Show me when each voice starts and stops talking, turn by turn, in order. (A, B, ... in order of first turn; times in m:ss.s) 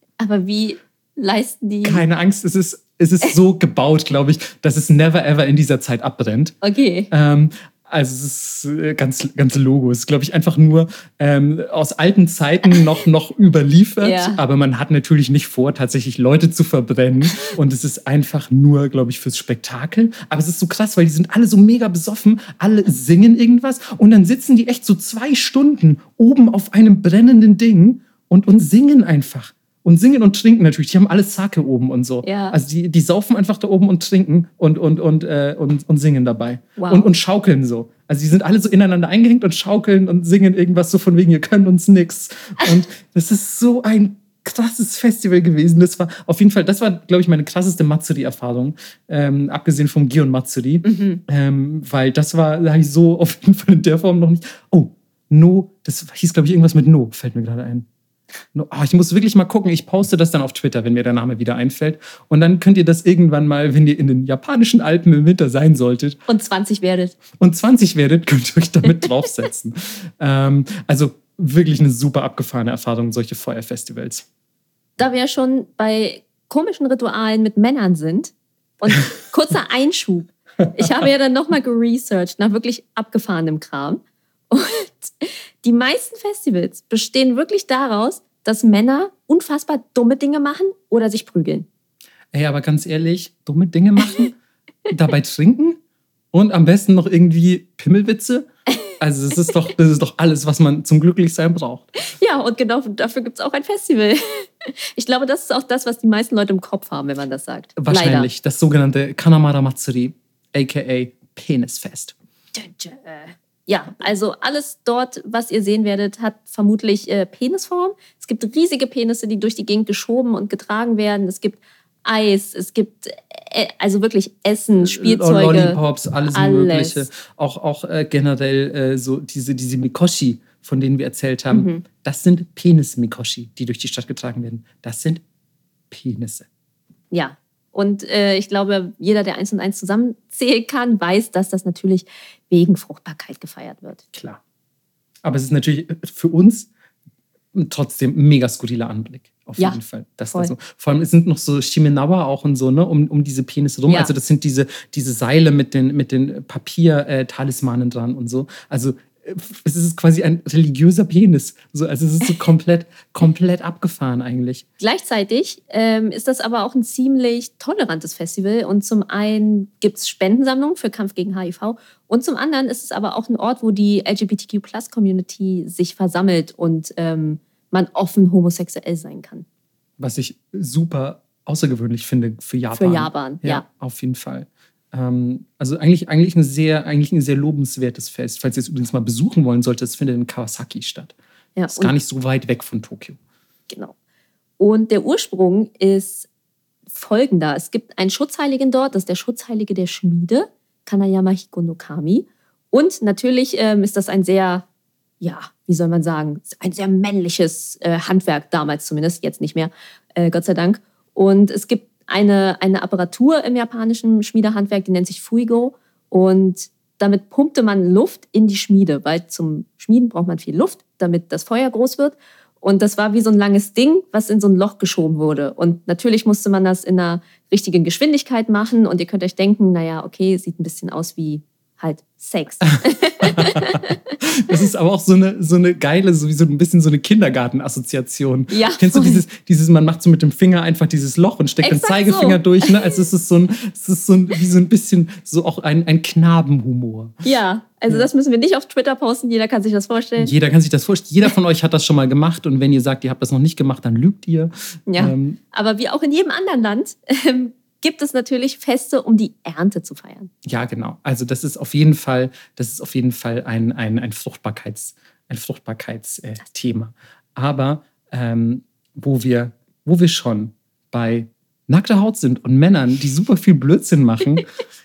0:00.2-0:02.0 A
0:01.8-0:06.6 B
0:06.6-0:07.1 A
0:07.1-0:57.9 B
0:14.0-0:14.4 A
0:32.2-0:32.6 A
0:36.8-0:37.1 A
0:50.8-0:51.2 A
0:58.5-1:06.2 B
1:06.3-1:07.2 A
1:07.4-1:14.3 B
1:15.0-1:31.7 A
1:20.8-1:21.1 B
1:32.3-1:34.4 B
1:34.9-1:35.8 B
1:36.3-1:42.0 B
1:42.2-1:48.3 A
1:47.8-1:52.2 B
1:52.5-2:05.8 A
2:04.8-2:15.2 B
2:06.3-2:07.0 A
2:11.5-2:11.8 A
2:15.9-2:16.5 B
2:17.1-2:24.0 A
2:24.1-2:24.4 B
2:25.2-2:26.7 B
2:27.5-2:44.7 B
2:44.8-2:59.5 A
3:00.0-3:11.2 B
3:02.7-3:03.6 A
3:11.6-3:12.0 A
3:11.7-3:13.2 B
3:14.6-3:16.3 A
3:16.9-3:24.6 A
3:25.2-3:53.9 A
3:52.8-4:07.2 B
3:58.5-3:59.2 A
4:01.6-4:02.9 A
4:07.2-4:10.3 A
4:10.2-4:15.4 B
4:14.9-4:20.3 A
4:20.4-4:34.5 B